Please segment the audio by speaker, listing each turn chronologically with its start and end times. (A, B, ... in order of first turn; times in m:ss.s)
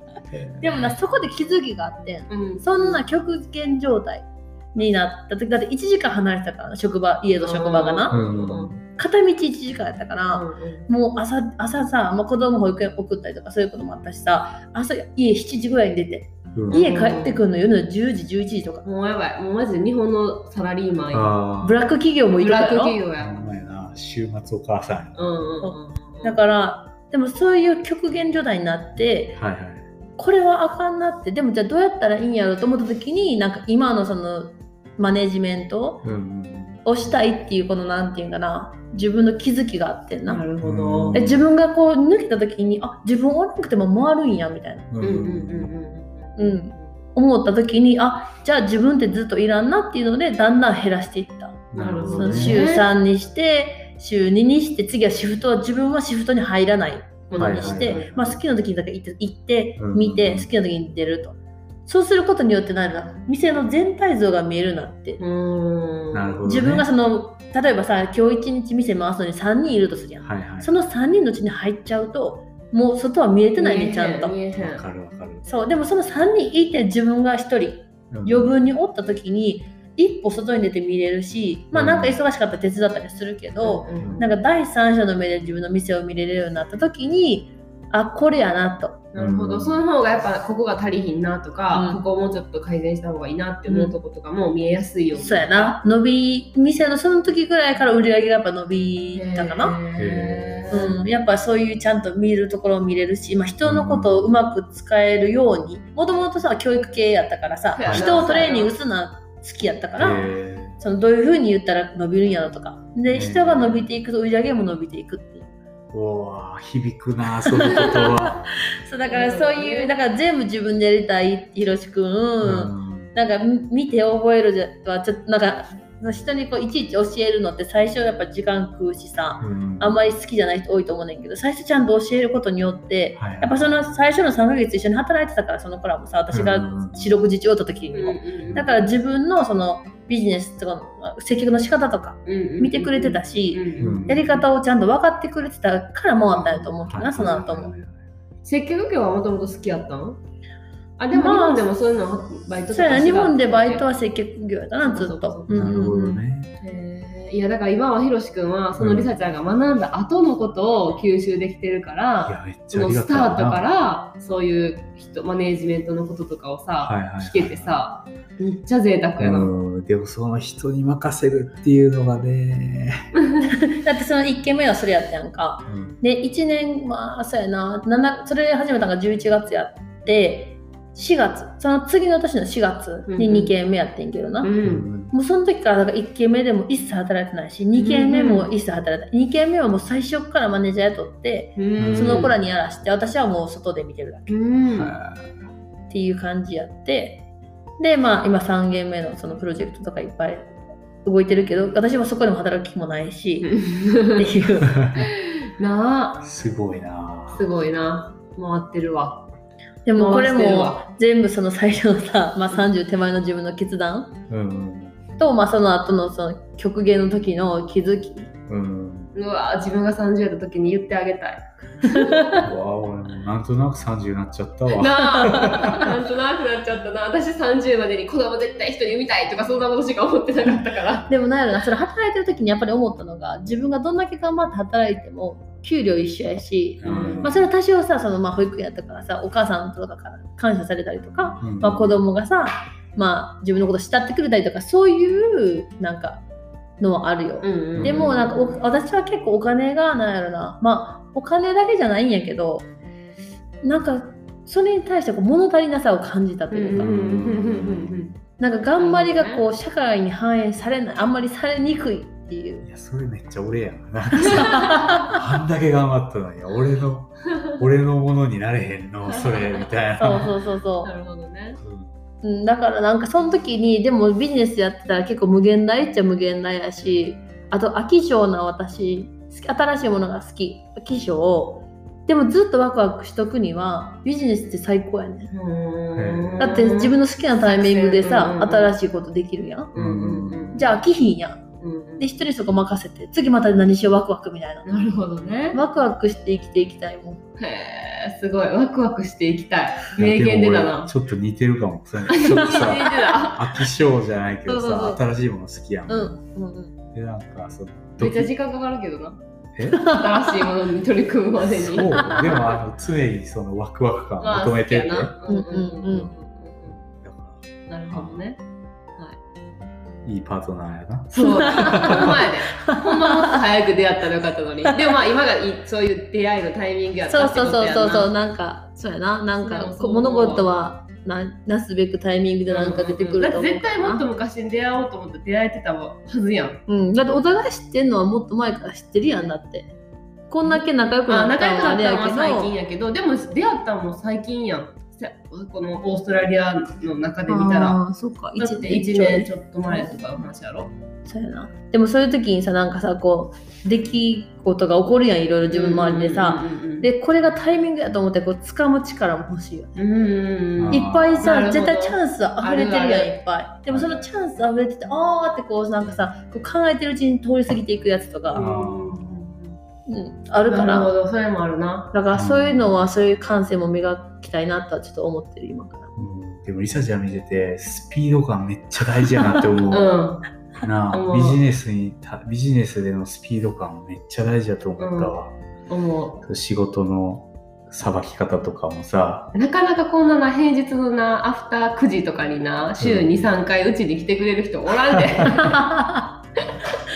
0:00.3-0:01.0 A
0:00.6-0:08.1 B
0:02.3-0:03.0 C
0:07.4-0:08.7 C
0:08.1-0:08.8 A
0:08.9-0:18.8 B
0:10.3-0:10.9 C
0:16.5-0:16.8 A
0:16.7-0:17.4 C
0:18.8-0:21.4 C
0:21.1-0:21.9 A
0:21.6-0:23.0 B
0:22.4-0:23.4 C
0:23.2-0:25.2 A
0:25.1-0:26.4 C
0:25.6-0:29.4 B
0:29.3-0:29.8 A
0:30.2-0:36.0 B
0:36.0-0:36.8 A
0:36.8-0:40.4 B
0:40.2-0:41.2 C
0:40.6-0:41.4 A
0:41.1-0:44.9 B
0:44.9-0:45.7 A
0:45.0-0:46.9 C
0:46.4-1:05.2 B
0:51.7-0:52.6 A
0:51.7-0:52.9 C
0:57.3-0:58.2 C
0:57.4-0:58.3 A
0:59.8-1:00.5 A
1:05.2-1:06.4 C
1:06.1-1:06.9 A
1:06.4-1:14.3 B
1:10.2-1:10.7 A
1:13.6-1:14.8 C
1:14.6-1:15.4 A
1:15.4-1:29.0 B
1:18.1-1:18.5 A
1:21.7-1:22.2 A
1:23.6-1:24.3 C
1:24.0-1:24.2 A
1:29.1-1:35.8 C
1:29.2-1:29.8 A
1:31.7-1:32.0 B
1:33.7-1:33.9 B
1:35.1-1:39.8 B
1:39.1-1:41.0 C
1:40.0-1:41.1 A
1:40.7-1:55.5 B
1:43.6-1:44.1 A
1:47.8-1:48.7 C
1:47.8-1:48.2 A
1:50.0-1:50.8 A
1:53.1-1:53.9 A
1:55.9-1:58.4 A
1:57.4-2:27.8 B
1:59.0-2:00.0 C
2:02.4-2:03.1 A
2:09.4-2:10.0 A
2:13.2-2:13.5 A
2:16.3-2:17.2 A
2:17.9-2:18.7 C
2:18.4-2:18.7 A
2:22.2-2:24.4 C
2:23.8-2:24.2 A
2:26.3-2:27.5 C
2:26.8-2:28.1 A
2:28.4-2:30.2 C
2:31.0-2:33.8 C
2:31.1-2:31.7 B
2:32.7-2:36.2 B
2:34.8-2:35.8 C
2:35.5-2:36.5 A
2:36.6-2:49.5 C
2:38.8-2:39.1 A
2:42.2-2:43.6 A
2:46.8-2:47.7 A
2:49.2-2:53.0 A
2:53.4-3:04.5 B
2:55.6-2:56.0 A
3:03.1-3:03.5 C
3:04.4-3:04.9 C
3:04.6-3:05.1 A
3:05.1-3:14.4 B
3:07.8-3:08.5 C
3:11.6-3:12.4 C
3:11.8-3:12.3 A
3:14.3-3:15.0 C
3:14.7-3:15.3 A
3:15.9-3:17.3 B
3:17.8-3:23.6 B
3:23.5-3:24.3 C
3:24.1-3:24.9 B
3:25.0-3:26.2 C
3:26.2-3:27.5 A
3:27.3-3:29.3 C
3:29.8-3:34.2 B
3:30.0-3:30.8 C
3:34.3-3:35.0 A
3:35.2-3:38.3 B
3:38.5-3:39.1 A
3:39.1-3:42.3 C
3:41.8-3:42.4 B
3:42.4-3:45.9 A
3:44.8-3:51.1 C
3:45.3-3:45.7 B
3:51.1-4:06.2 B
3:56.8-3:57.4 A
3:56.8-3:57.3 C
4:01.4-4:02.0 A
4:06.8-4:12.7 B
4:07.4-4:08.6 C
4:07.7-4:08.2 A
4:13.6-4:16.9 B
4:16.5-4:18.1 C
4:16.8-4:18.2 A
4:18.4-4:22.6 B
4:18.8-4:19.4 C
4:22.6-4:30.3 A
4:24.3-4:25.0 C
4:24.3-4:25.1 B
4:29.0-4:30.1 C
4:30.0-4:30.9 B
4:30.8-4:31.6 C
4:31.6-4:31.9 A
4:32.2-4:45.3 B
4:45.3-4:48.7 C
4:46.0-4:46.5 A
4:46.4-4:49.7 B
4:49.7-4:50.7 C
4:49.7-4:50.6 A
4:50.5-4:51.4 B
4:51.6-4:52.1 C
4:52.0-4:54.7 B
4:54.6-4:55.6 C
4:55.5-4:57.2 B
4:57.4-5:00.9 C
5:00.0-5:06.2 A
5:02.1-5:03.6 C
5:02.5-5:02.9 B
5:04.5-5:05.0 B
5:05.9-5:06.7 B
5:06.9-5:08.3 A
5:08.0-5:09.2 C
5:09.5-5:10.0 A
5:09.6-5:10.3 B
5:09.8-5:11.9 C
5:11.4-5:15.2 A
5:12.0-5:12.4 B
5:14.2-5:16.8 C
5:15.3-5:16.1 B
5:16.9-5:18.2 A
5:17.7-5:18.4 C
5:20.0-5:22.2 A
5:21.1-5:28.1 C
5:21.2-5:23.3 B
5:27.1-5:34.0 B
5:29.3-5:30.5 C
5:32.5-5:36.6 C
5:36.7-5:39.7 B
5:40.3-5:42.5 B
5:40.4-5:47.8 C
5:47.3-5:49.9 B
5:48.4-5:50.7 C
5:51.0-5:59.9 B
5:55.5-5:56.9 C
5:59.8-6:03.1 C
6:00.6-6:01.2 A
6:00.7-6:08.4 B
6:03.7-6:04.1 A
6:08.3-6:09.6 C
6:08.4-6:09.3 A
6:09.8-6:10.9 B
6:10.5-6:11.9 C
6:11.9-6:16.0 B
6:12.1-6:12.6 A
6:16.0-6:19.9 A
6:19.7-6:20.2 C
6:20.6-6:25.3 A
6:20.9-6:21.4 C
6:24.8-6:25.1 C
6:25.7-6:26.2 C
6:26.2-6:29.3 A
6:29.3-6:35.6 C
6:32.8-6:33.3 A
6:35.4-6:36.1 B